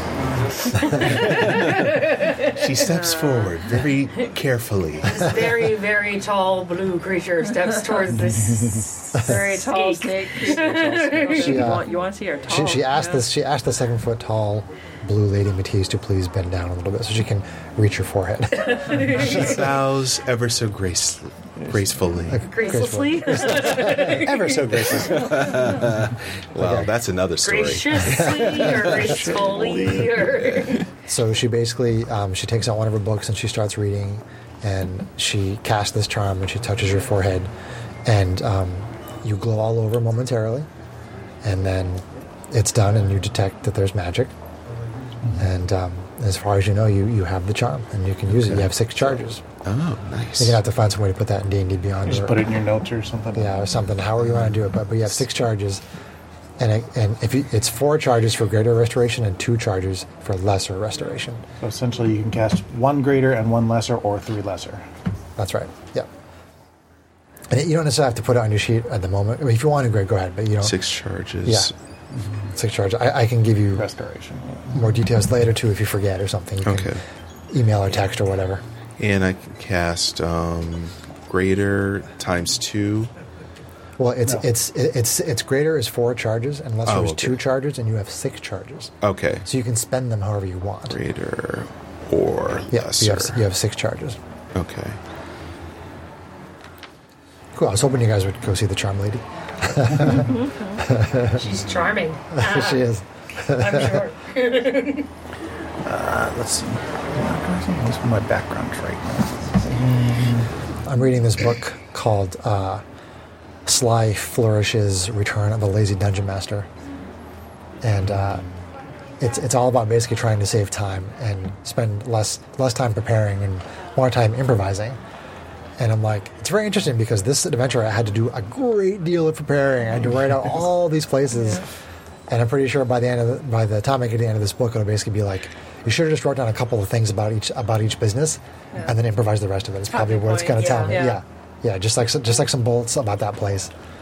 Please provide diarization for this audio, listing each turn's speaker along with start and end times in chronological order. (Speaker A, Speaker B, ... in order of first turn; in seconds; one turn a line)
Speaker A: 0.8-1.4
Speaker B: 0.8-2.5
Speaker C: 1.3-5.2
Speaker D: 2.8-3.6
Speaker B: 5.0-11.8
Speaker D: 9.2-13.3
Speaker A: 11.2-11.9
Speaker A: 12.4-19.4
Speaker B: 18.7-19.6
Speaker C: 19.1-22.5
Speaker A: 22.3-24.2
Speaker B: 22.4-25.8
Speaker E: 23.6-25.7
Speaker C: 25.1-29.1
Speaker A: 26.6-26.9
Speaker B: 27.4-30.8
Speaker A: 28.0-28.5
Speaker E: 28.5-30.7
Speaker A: 31.1-37.5
Speaker A: 38.0-40.7
Speaker A: 41.4-44.3
Speaker A: 45.4-49.4
Speaker C: 49.6-50.6
Speaker A: 50.4-52.5
Speaker E: 52.0-53.6
Speaker A: 53.3-55.8
Speaker A: 56.6-61.4
Speaker E: 61.6-64.8
Speaker A: 65.4-66.1
Speaker A: 67.5-70.8
Speaker C: 70.6-71.7
Speaker A: 71.4-71.7
Speaker A: 72.5-73.9
Speaker E: 73.7-74.8
Speaker A: 74.7-76.9
Speaker C: 76.6-77.0
Speaker A: 77.5-78.6
Speaker C: 79.0-83.1
Speaker A: 84.0-88.9
Speaker C: 86.8-87.4
Speaker C: 89.0-89.5
Speaker A: 89.4-91.0
Speaker C: 90.9-93.4
Speaker A: 92.7-94.2
Speaker C: 94.5-95.0
Speaker A: 97.5-101.5
Speaker D: 100.3-100.8
Speaker B: 101.3-102.8
Speaker A: 102.3-104.1
Speaker B: 103.5-105.1
Speaker E: 105.8-110.5
Speaker A: 110.8-112.8
Speaker A: 113.7-116.7
Speaker A: 117.8-118.4
Speaker A: 119.2-125.0
Speaker A: 125.8-131.7
Speaker D: 131.3-131.6
Speaker A: 132.3-143.7
Speaker D: 139.9-141.2
Speaker B: 140.5-141.1